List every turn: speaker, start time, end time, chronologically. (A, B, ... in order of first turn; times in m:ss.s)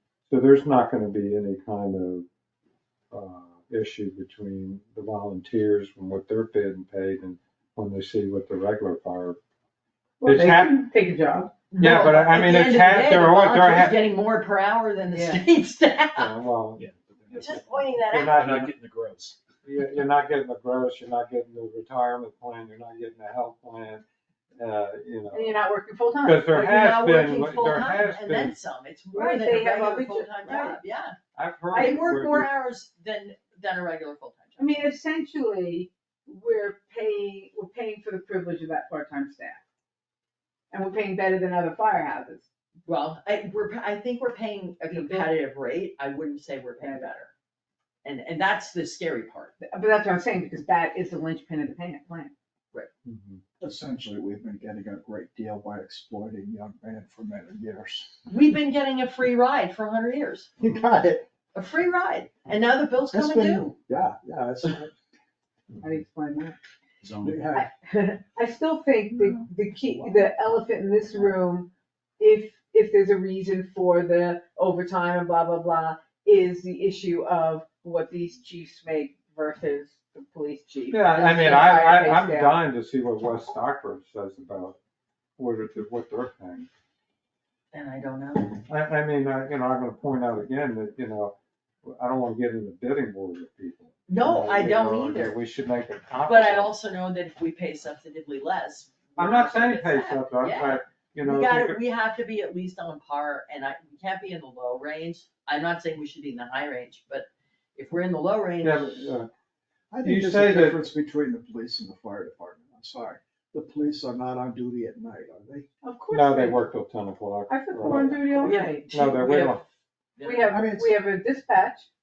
0:00.3-0:02.3 A
0:03.1-0:09.4 A
0:10.2-0:10.8 A
0:10.2-0:11.5 B
0:11.7-0:16.4 C
0:11.8-0:14.0 A
0:15.1-0:15.4 B
0:16.2-0:18.7 A
0:16.8-0:19.4 D
0:17.4-0:18.5 C
0:19.6-0:24.0 A
0:24.6-0:25.6 A
0:25.3-0:26.5 B
0:26.2-0:28.6 A
0:26.5-0:31.2 C
0:29.1-0:30.8 B
0:31.4-0:32.5 A
0:31.7-0:34.9 C
0:34.6-0:39.6 B
0:40.7-0:42.4 B
0:42.9-0:47.3 C
0:44.9-0:45.2 B
0:48.0-0:49.5 C
0:49.6-0:52.3 B
0:53.0-0:53.4 A
0:53.6-0:58.1 E
0:58.3-1:00.5 C
1:00.6-1:01.3 E
1:01.5-1:03.7 C
1:03.1-1:04.9 E
1:05.8-1:06.6 B
1:07.0-1:07.5 D
1:07.2-1:07.7 E
1:07.5-1:22.6 B
1:09.1-1:10.3 E
1:20.9-1:24.8 A
1:25.4-1:26.7 A
1:27.7-1:28.6 C
1:28.6-1:36.8 A
1:34.1-1:35.4 C
1:36.3-1:49.1 C
1:39.2-1:41.8 A
1:48.6-1:49.3 A
1:49.9-1:55.7 E
1:50.0-1:50.8 A
1:55.8-1:56.6 B
1:56.1-1:59.6 A
1:57.5-1:58.9 B
1:57.9-1:58.1 E
1:58.4-2:00.6 C
2:00.2-2:01.9 B
2:00.5-2:01.0 E